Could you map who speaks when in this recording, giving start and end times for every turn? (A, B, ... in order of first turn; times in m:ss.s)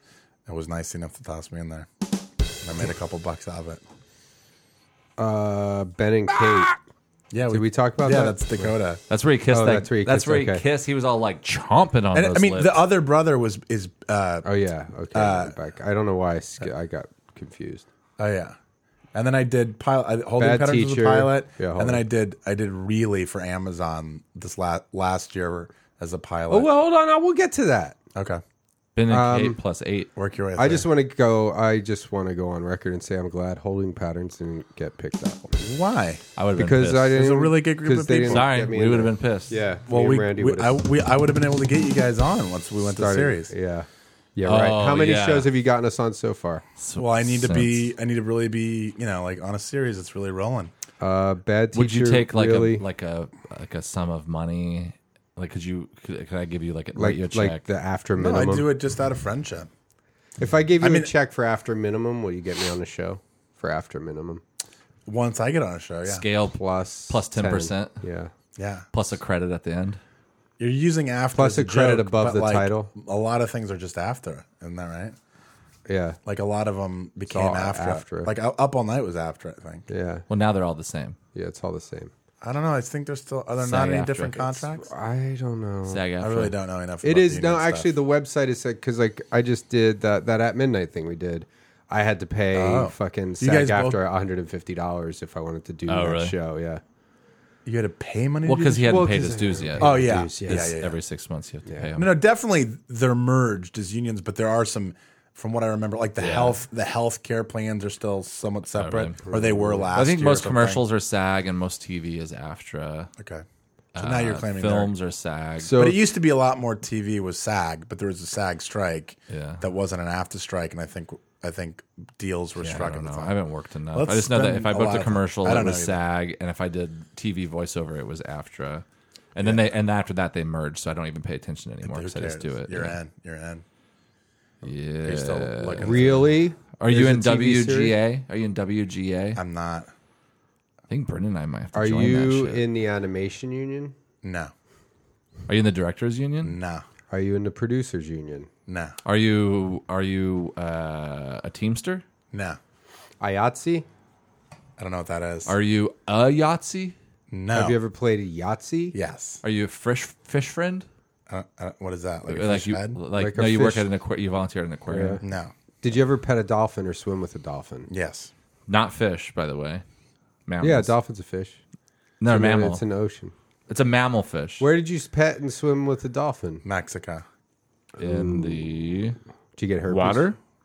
0:00.5-0:01.9 A
0:02.6-0:03.8 A
0:05.2-0:06.8 B
0:07.3-0:09.0 A
0:07.5-0:08.7 B
0:09.1-0:12.8 C
0:09.5-0:10.6 B
0:12.1-0:14.5 A
0:14.4-0:17.8 B
0:15.1-0:15.5 A
0:18.2-0:18.6 A
0:19.1-0:26.7 A
0:20.4-0:22.0 B
0:26.5-0:28.0 B
0:28.1-0:28.4 A
0:29.0-0:30.1 C
0:29.1-0:29.6 B
0:30.2-0:30.9 A
0:30.6-0:35.6 B
0:35.6-0:36.2 A
0:36.4-0:37.1 C
0:36.6-0:40.8 B
0:37.1-0:38.5 A
0:38.2-0:39.6 C
0:39.9-0:43.5 A
0:42.8-0:46.6 B
0:44.4-0:45.5 C
0:46.8-0:47.9 C
0:47.0-0:50.7 A
0:51.0-0:52.8 B
0:51.7-0:57.6 C
0:57.0-0:58.7 B
0:58.2-0:59.7 A
1:00.4-1:04.4 B
1:00.8-1:01.1 A
1:05.0-1:06.2 A
1:06.0-1:08.0 C
1:06.5-1:08.3 B
1:08.6-1:08.9 A
1:08.9-1:10.0 C
1:10.6-1:15.2 A
1:11.3-1:12.9 B
1:15.8-1:16.2 B
1:16.2-1:19.9 A
1:17.3-1:18.3 B
1:19.9-1:20.2 B
1:20.3-1:21.2 C
1:21.3-1:22.1 B
1:22.4-1:24.9 A
1:23.6-1:24.6 C
1:24.8-1:26.0 B
1:25.8-1:26.5 C
1:26.2-1:27.9 A
1:27.0-1:36.8 B
1:32.5-1:34.0 A
1:35.9-1:36.3 C
1:37.6-1:39.1 A
1:38.4-1:42.1 C
1:38.8-1:40.7 B
1:39.8-1:41.0 A
1:42.0-1:50.8 A
1:46.2-1:46.6 C
1:48.7-1:49.2 C
1:49.2-1:49.9 B
1:49.9-1:53.1 C
1:53.2-1:53.4 A
1:53.9-1:55.7 C
1:54.0-1:54.9 A
1:55.6-1:56.0 B
1:55.7-2:03.3 A
1:59.3-1:59.6 C
2:02.6-2:13.0 C
2:03.9-2:06.0 A
2:09.4-2:09.7 A
2:11.8-2:13.6 A
2:14.6-2:19.4 C
2:15.0-2:16.3 A
2:15.8-2:18.0 B
2:19.4-2:19.9 A
2:20.9-2:22.6 C
2:21.7-2:23.9 B
2:24.2-2:24.5 A
2:25.5-2:26.6 C
2:26.4-2:26.8 A
2:27.1-2:28.5 B
2:28.7-2:29.0 A
2:29.0-2:32.0 C
2:32.3-2:32.6 A
2:33.2-2:33.8 B
2:34.8-2:35.5 A
2:35.5-2:37.0 C
2:37.3-2:37.8 A
2:37.5-2:39.0 B
2:38.9-2:39.4 A
2:39.4-2:40.8 C
2:41.3-2:43.0 A
2:42.3-2:45.2 C
2:43.2-2:43.9 B
2:44.9-2:45.2 B
2:45.2-2:45.5 A
2:45.8-2:47.9 B
2:47.9-2:48.3 A
2:48.7-2:49.8 C
2:50.5-2:50.9 C
2:50.6-2:51.6 B
2:52.2-2:52.8 C
2:52.3-2:53.3 B
2:53.7-2:54.6 C
2:54.6-2:56.6 B
2:56.6-2:57.2 A
2:58.0-2:58.7 B
2:58.0-2:59.2 C
2:59.6-3:00.3 B
2:59.9-3:00.4 C